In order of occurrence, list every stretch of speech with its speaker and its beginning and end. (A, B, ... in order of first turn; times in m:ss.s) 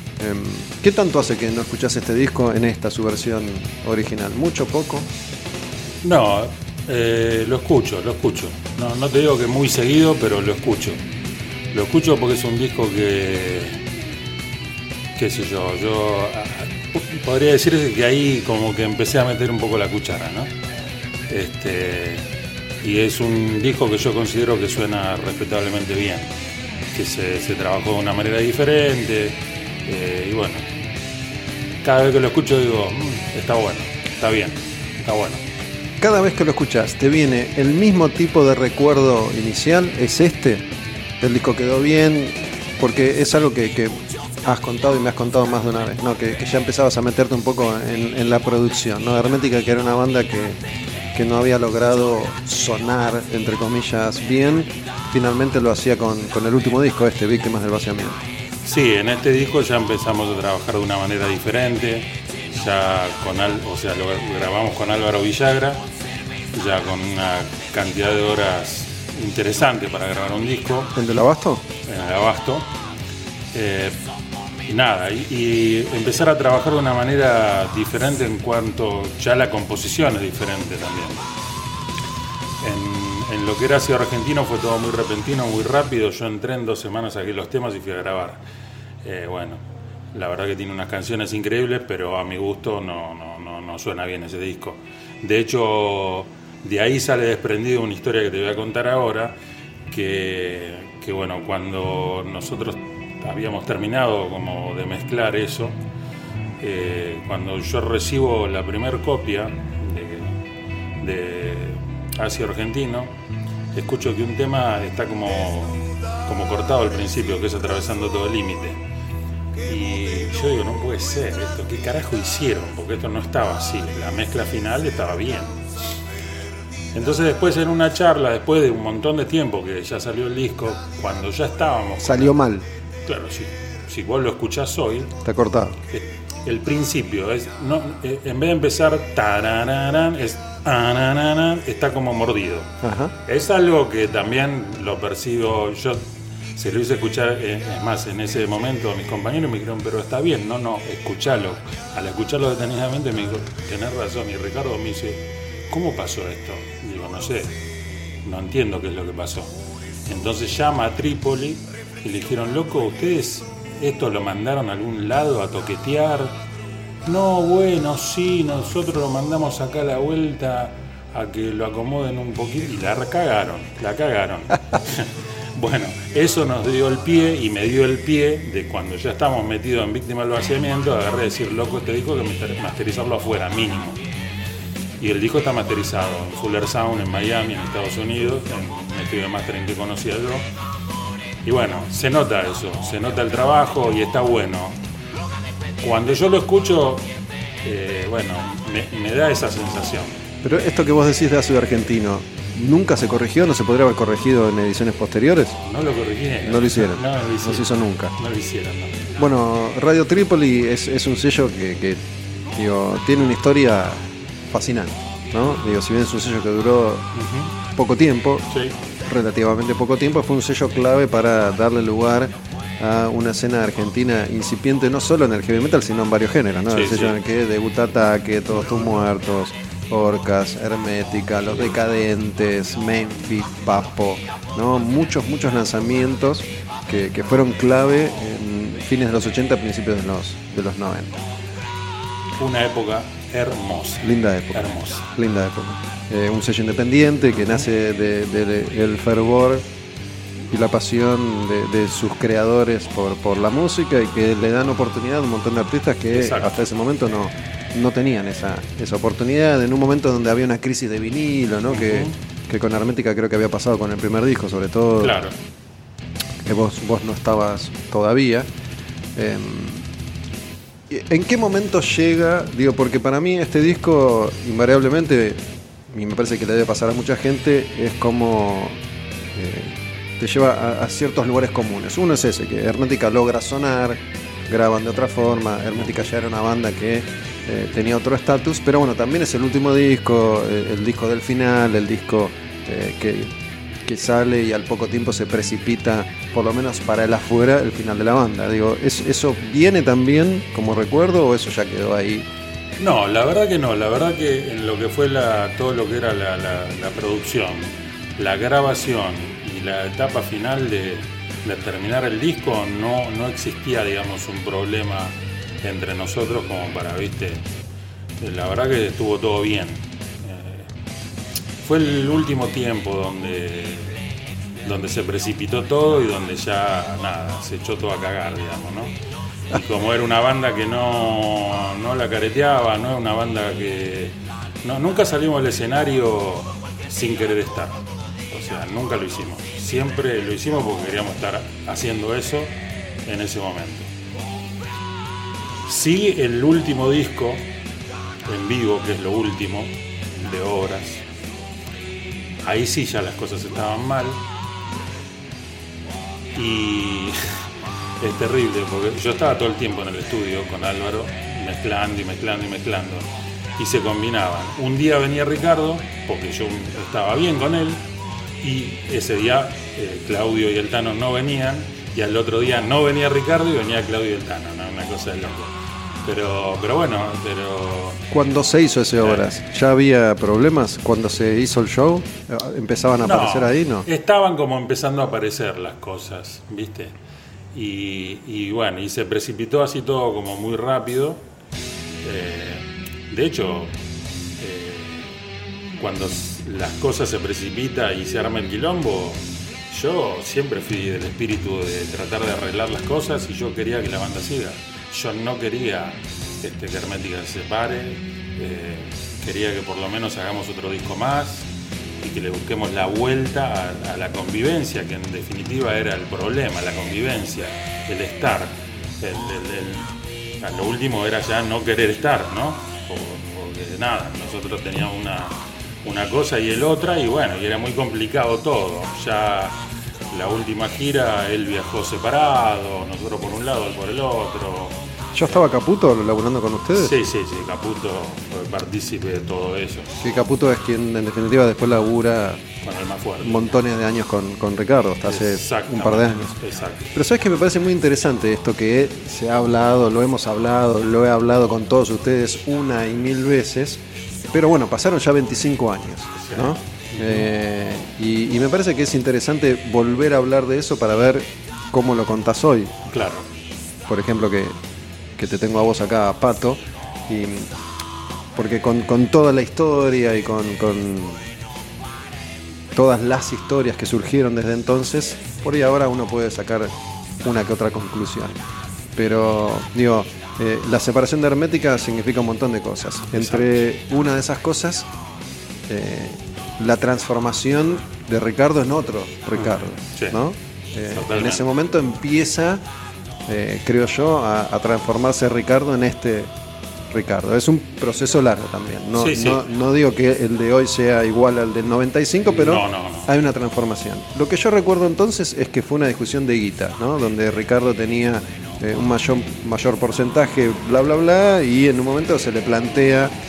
0:00.2-0:05.1 A
0:06.0-0:11.0 B
0:11.7-0:13.8 B
0:15.2-0:20.5 B
0:21.3-0:22.3 B
0:22.8-0:26.3 B
0:26.9-0:30.6 B
0:31.8-0:35.4 B
0:36.0-0:40.7 A
0:41.2-0:50.6 A
0:51.2-0:58.2 A
0:58.6-1:05.8 B
1:06.5-1:10.9 B
1:11.0-1:11.6 A
1:11.8-1:12.7 B
1:13.5-1:14.0 B
1:14.7-1:21.2 B
1:22.6-1:28.4 B
1:29.0-1:39.4 B
1:39.9-1:45.8 B
1:46.6-1:50.3 B
1:51.0-1:53.1 B
1:53.7-1:58.8 B
1:59.6-2:05.6 B
2:06.9-2:12.4 B
2:12.0-2:12.6 A
2:13.1-2:15.1 B
2:15.2-2:15.8 A
2:15.9-2:22.7 B
2:22.8-2:23.1 A
2:23.3-2:26.0 B
2:26.6-2:37.5 B
2:38.2-2:39.6 B
2:40.1-2:46.4 B
2:47.0-3:04.0 B
3:05.0-3:10.5 B
3:11.4-3:14.8 B
3:15.8-3:17.1 B
3:17.6-3:20.2 B
3:20.4-3:25.6 A
3:25.6-3:29.2 B
3:26.4-3:28.1 A
3:29.2-3:32.0 A
3:32.5-3:37.1 A
3:37.2-3:37.5 B
3:37.8-3:38.5 A
3:38.5-3:38.8 B
3:39.1-4:01.2 A
3:46.7-3:47.2 B
4:02.4-4:05.1 B
4:04.0-4:09.6 A
4:10.5-4:25.2 A
4:16.1-4:16.5 B
4:21.7-4:22.1 B
4:25.0-4:25.3 B
4:26.4-4:28.5 A
4:29.2-4:29.8 A
4:30.9-4:38.8 A
4:39.3-4:53.3 A
4:53.9-5:02.3 A
5:02.8-5:17.5 B
5:18.2-5:20.7 B
5:21.6-5:24.0 B
5:24.6-5:29.0 B
5:29.5-5:43.9 B
5:45.7-5:47.5 B
5:48.3-5:51.0 B
5:52.4-5:54.2 B
5:56.3-5:57.4 B
5:58.0-6:07.8 B
6:08.4-6:15.5 B
6:16.0-6:18.0 B
6:18.1-6:23.9 A
6:23.0-6:26.9 B
6:27.5-6:31.2 B
6:32.0-6:33.7 B
6:34.4-6:35.1 B
6:35.8-6:51.5 B
6:52.0-6:59.9 B
7:00.4-7:09.6 B
7:10.1-7:14.8 B
7:15.2-7:16.9 A
7:16.8-7:19.9 B
7:20.0-7:22.4 A
7:22.6-7:23.5 B
7:23.2-7:26.4 A
7:25.1-7:26.9 B
7:26.9-7:33.8 A
7:34.3-7:42.7 A
7:36.2-7:37.2 B
7:42.9-7:43.2 B
7:43.9-7:44.6 A
7:45.2-7:47.5 A
7:48.4-7:51.2 A
7:52.8-7:56.7 A
7:57.2-7:58.4 A
7:59.0-8:04.9 A
8:03.2-8:03.5 B
8:05.7-8:12.6 A
8:11.0-8:11.4 B
8:13.3-8:16.3 A
8:16.9-8:33.1 A
8:19.0-8:19.4 B
8:22.3-8:23.1 B